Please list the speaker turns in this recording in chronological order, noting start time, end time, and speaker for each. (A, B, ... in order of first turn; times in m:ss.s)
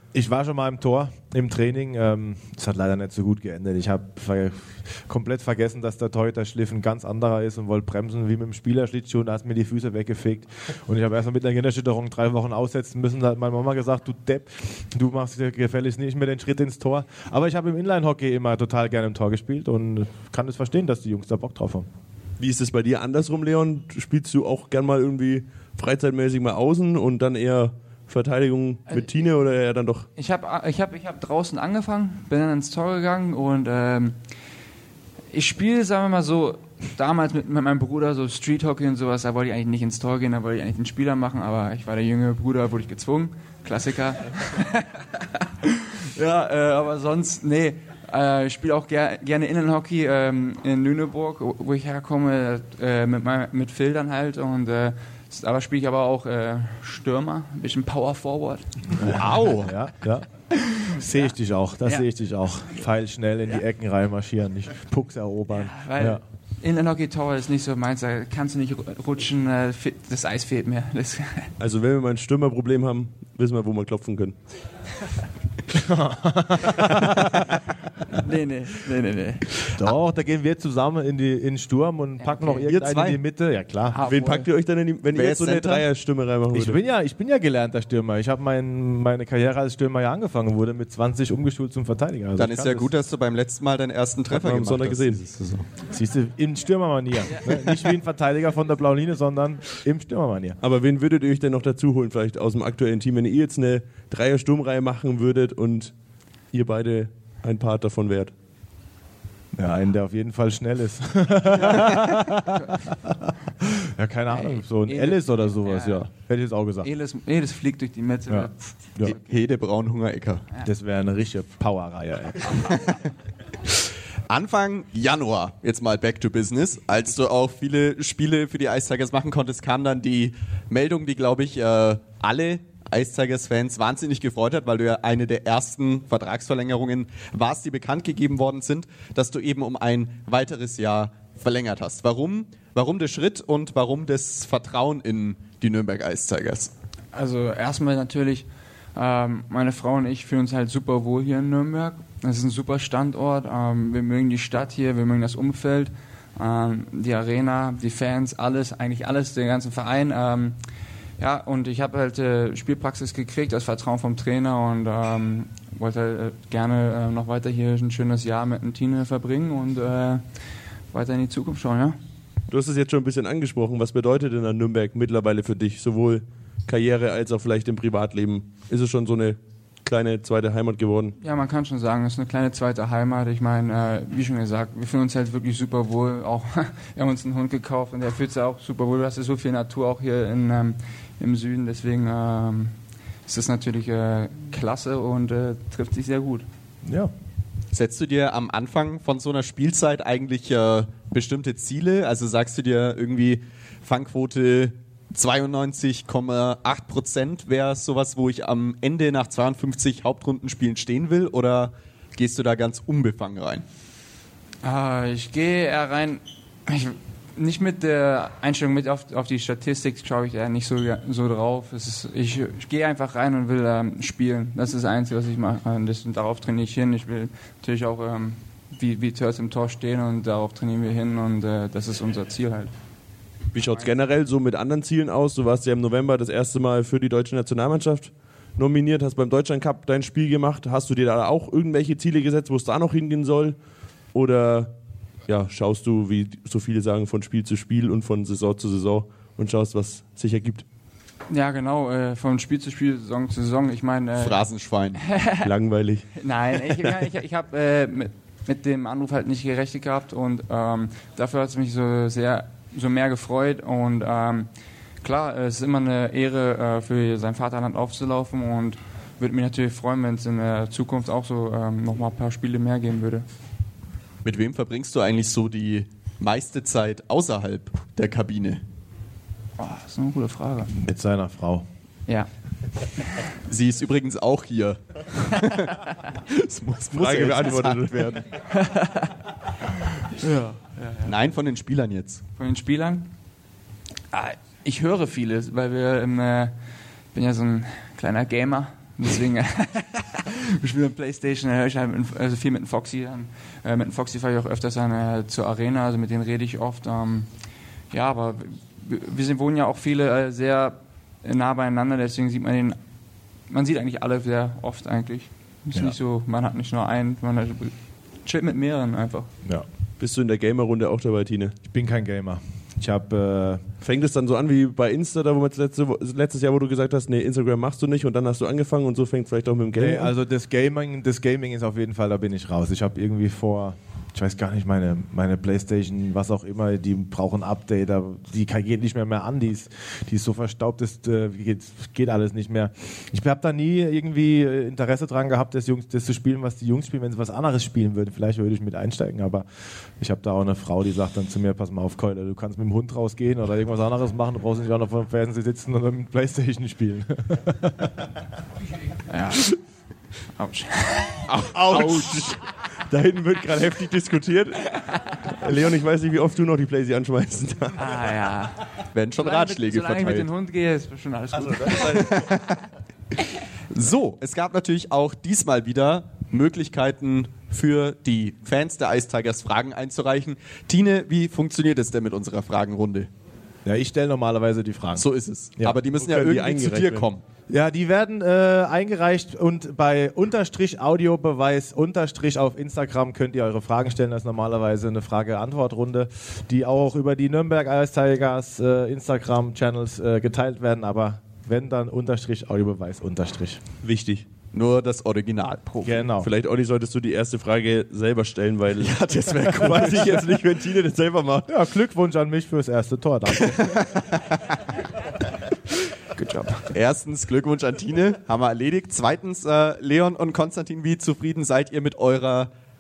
0:00.1-0:21.9 A
0:22.4-0:30.1 B
0:30.2-0:34.2 C
0:35.3-0:58.7 C
0:58.9-1:00.3 A
0:59.1-0:59.7 D
1:00.8-1:06.2 A
1:05.5-1:11.5 C
1:11.6-1:14.4 B
1:15.7-1:17.5 A
1:18.1-1:19.5 C
1:19.8-1:24.1 A
1:22.2-1:22.6 C
1:22.7-1:23.2 D
1:23.9-1:24.5 C
1:24.0-1:26.8 B
1:25.1-1:25.9 D
1:26.5-1:32.9 A
1:32.4-1:35.6 D
1:34.3-1:35.2 B
1:35.9-1:40.6 A
1:40.6-1:45.9 B
1:46.5-1:48.3 B
1:49.5-1:56.9 A
1:54.3-1:56.0 C
1:56.8-1:59.2 C
1:58.3-1:59.1 A
1:59.0-2:00.4 D
2:00.6-2:02.8 A
2:04.3-2:26.7 D
2:27.1-2:40.6 C
2:41.2-2:50.4 C
2:50.9-2:52.0 C
2:52.5-3:01.2 B
3:01.2-3:12.7 C
3:13.3-3:16.5 C
3:16.8-3:17.1 A
3:17.7-3:33.6 D
3:34.6-3:52.7 C
3:53.5-4:03.6 B
4:04.1-4:04.7 B
4:05.3-4:10.6 B
4:11.3-4:14.4 C
4:14.2-4:15.0 D
4:15.0-4:15.5 C
4:15.4-4:16.9 B
4:16.2-4:24.5 C
4:25.0-4:33.2 C
4:34.2-4:38.6 D
4:39.6-4:40.8 C
4:40.8-4:41.6 A
4:43.5-4:48.2 D
4:46.9-4:48.2 B
4:48.5-4:49.1 C
4:50.0-4:51.1 C
4:51.0-4:52.2 D
4:52.4-4:53.1 C
4:54.1-4:56.5 C
4:57.1-5:07.3 C
5:07.9-5:12.8 C
5:13.5-5:19.3 C
5:20.0-5:21.5 B
5:21.6-5:23.6 A
5:23.8-5:30.1 B
5:29.8-5:58.1 A
5:59.1-5:59.6 C
6:00.4-6:01.2 C
6:01.3-6:07.9 B
6:01.7-6:02.3 D
6:07.8-6:08.6 C
6:08.9-6:10.3 D
6:09.2-6:12.0 C
6:11.3-6:12.2 B
6:12.0-6:12.6 D
6:13.7-6:23.1 D
6:23.6-6:25.1 A
6:25.0-6:27.2 D
6:26.0-6:27.1 B
6:27.5-6:43.6 A
6:43.8-6:44.3 B
6:44.5-6:46.0 D
6:45.8-6:46.3 A
6:46.2-6:51.5 B
6:48.8-6:50.4 D
6:51.5-6:54.0 A
6:56.1-6:56.7 C
6:56.7-7:02.5 D